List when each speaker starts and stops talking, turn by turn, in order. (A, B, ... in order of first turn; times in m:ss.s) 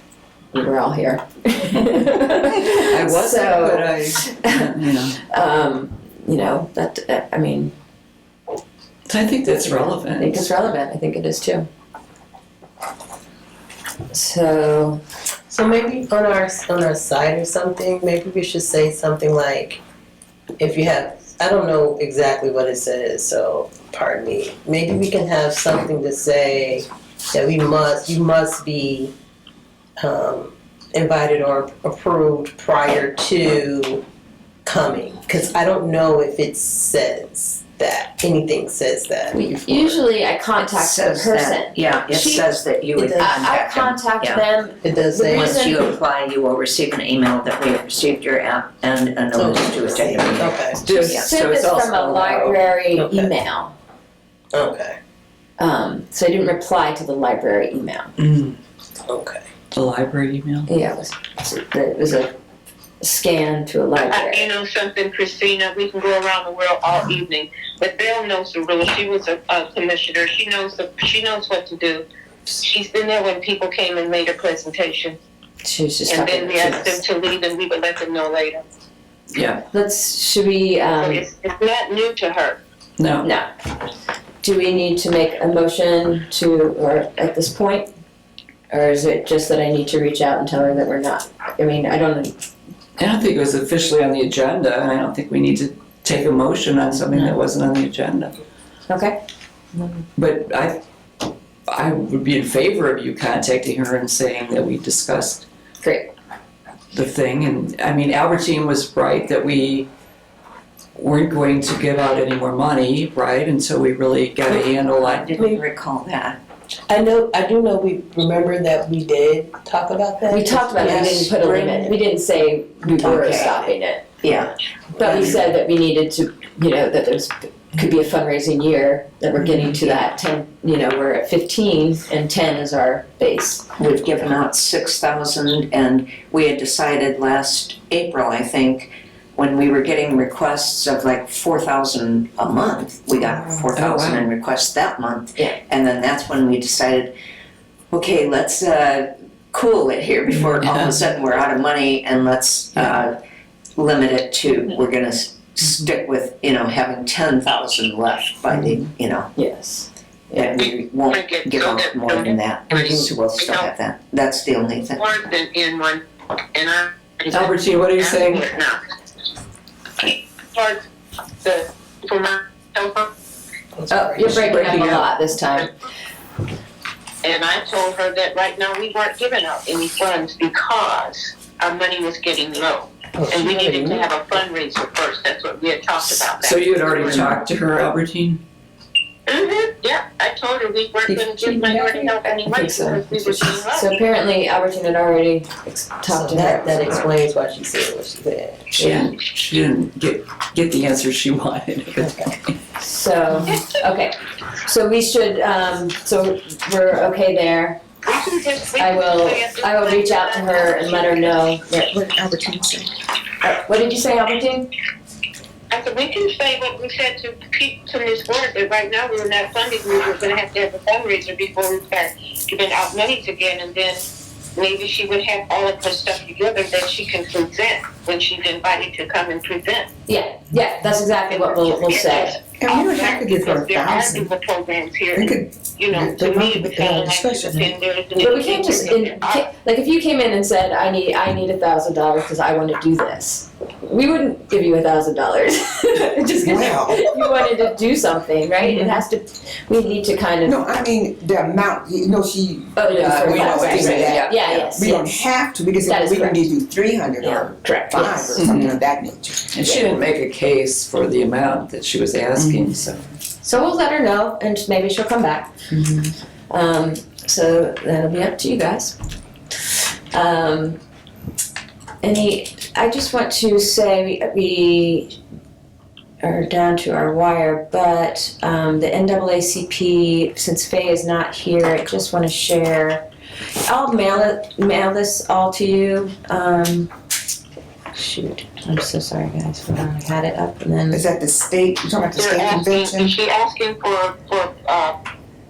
0:00.5-0:07.7 A
0:02.1-0:05.2 B
0:09.1-0:10.5 B
0:10.2-0:11.7 A
0:14.1-0:15.0 A
0:15.5-0:19.8 C
0:20.6-0:29.1 C
0:30.0-0:34.0 C
0:34.6-0:40.0 C
0:39.3-0:42.5 A
0:40.6-0:44.4 D
0:43.1-0:45.8 A
0:44.8-0:45.6 C
0:45.3-0:51.3 D
0:49.3-0:50.8 C
0:50.8-0:52.6 B
0:50.9-0:53.7 A
0:53.0-0:53.3 C
0:54.5-0:55.0 C
0:55.6-0:58.1 A
0:58.2-0:58.6 B
0:59.1-0:59.4 C
0:59.7-1:00.7 B
1:00.7-1:02.3 A
1:03.0-1:04.5 A
1:04.0-1:12.0 E
1:12.6-1:15.2 E
1:15.6-1:17.0 A
1:16.1-1:18.6 E
1:19.3-1:19.6 B
1:19.7-1:21.2 A
1:20.9-1:22.6 E
1:23.0-1:23.3 B
1:23.2-1:23.5 A
1:24.4-1:27.9 A
1:28.7-1:32.3 A
1:33.0-1:38.4 B
1:38.9-1:39.2 A
1:39.7-1:40.0 A
1:40.2-1:40.8 B
1:41.7-1:45.4 B
1:45.8-1:46.1 A
1:46.9-1:49.9 B
1:51.0-1:55.4 B
1:54.5-1:56.4 D
1:56.9-2:01.2 C
2:00.3-2:04.1 A
2:00.8-2:02.0 D
2:02.8-2:03.6 D
2:03.0-2:03.6 C
2:04.2-2:04.6 D
2:05.0-2:13.7 A
2:05.0-2:05.4 C
2:09.4-2:09.7 B
2:13.8-2:27.1 D
2:23.8-2:24.3 B
2:27.9-2:33.2 D
2:30.4-2:30.9 B
2:33.8-2:39.3 D
2:39.4-2:40.4 A
2:40.3-2:45.1 D
2:40.6-2:43.7 E
2:45.0-2:48.8 E
2:47.3-2:48.4 B
2:50.0-2:50.8 E
2:51.4-2:53.1 E
2:53.8-2:54.8 C
2:53.9-2:55.7 A
2:54.4-2:55.0 B
2:57.2-3:07.3 E
3:03.1-3:04.1 C
3:06.2-3:08.4 B
3:09.3-3:13.9 E
3:11.1-3:12.3 C
3:12.4-3:17.0 A
3:16.0-3:19.2 C
3:18.7-3:22.6 B
3:22.0-3:22.3 C
3:22.8-3:27.8 A
3:28.0-3:31.4 E
3:28.8-3:31.9 A
3:31.9-3:32.9 F
3:33.4-3:34.7 A
3:35.7-3:44.0 E
3:44.6-3:49.9 E
3:50.1-3:52.4 A
3:51.3-3:59.5 E
3:52.6-3:54.3 F
3:55.1-3:57.8 F
3:58.1-4:10.6 A
4:06.3-4:07.4 F
4:08.6-4:09.0 F
4:10.4-4:19.5 F
4:12.7-4:15.2 A
4:13.1-4:14.7 B
4:15.8-4:16.4 A
4:17.2-4:18.5 A
4:18.3-4:18.8 B
4:19.5-4:23.0 B
4:19.6-4:19.9 A
4:23.4-4:25.5 A
4:26.5-4:29.0 A
4:29.6-4:30.8 A
4:32.0-4:35.2 A
4:36.2-4:43.0 A
4:43.6-4:46.9 A
4:47.9-4:51.0 A
4:50.9-4:53.2 F
4:52.2-4:55.0 E